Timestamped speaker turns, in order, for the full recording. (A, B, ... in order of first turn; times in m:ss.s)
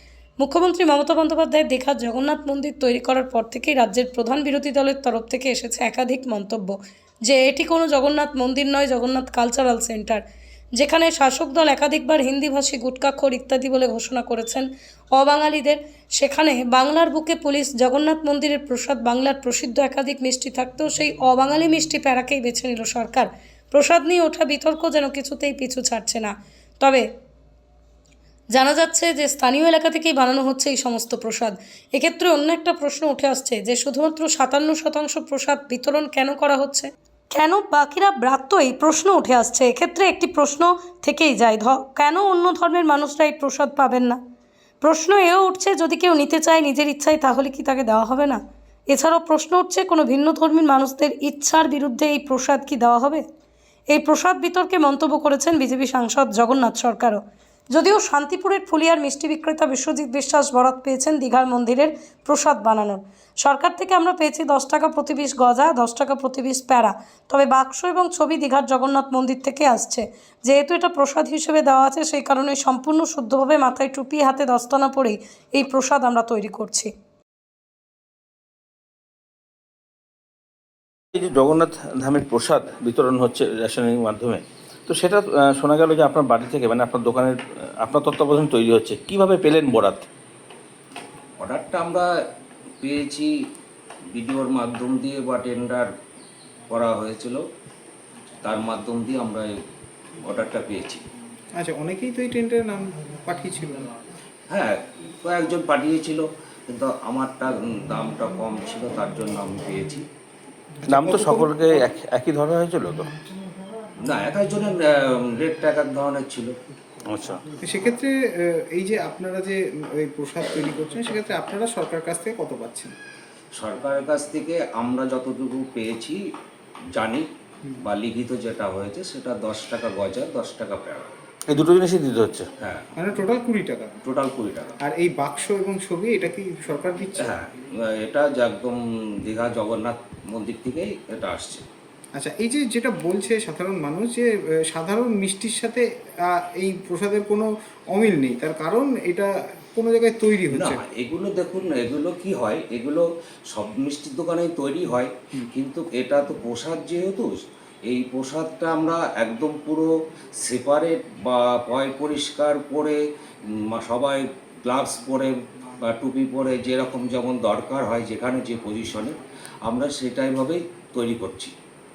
0:00.4-0:10.2 A
0:10.8-0:27.0 A
0:28.5-0:44.2 A
0:44.8-0:53.2 A
0:53.9-1:16.9 A
1:21.2-1:30.1 B
1:31.4-1:32.1 C
1:32.8-1:33.3 C
1:34.1-1:35.9 C
1:36.7-1:37.4 C
1:38.4-1:39.5 C
1:40.3-1:41.0 C
1:41.6-1:43.9 D
1:44.5-1:50.0 C
1:50.9-1:51.8 D
1:50.9-1:53.1 B
1:54.0-1:54.8 C
1:55.4-1:56.5 C
1:57.1-1:57.4 B
1:57.6-1:58.1 D
1:58.7-2:02.9 D
2:03.6-2:06.2 C
2:07.0-2:07.2 C
2:07.8-2:11.1 C
2:11.5-2:12.5 B
2:13.0-2:13.9 D
2:14.0-2:14.8 C
2:14.8-2:17.4 D
2:17.2-2:21.6 C
2:22.2-2:30.8 D
2:30.5-2:37.3 C
2:37.9-2:39.9 C
2:40.4-2:43.0 C
2:43.7-2:49.1 C
2:49.7-2:51.5 C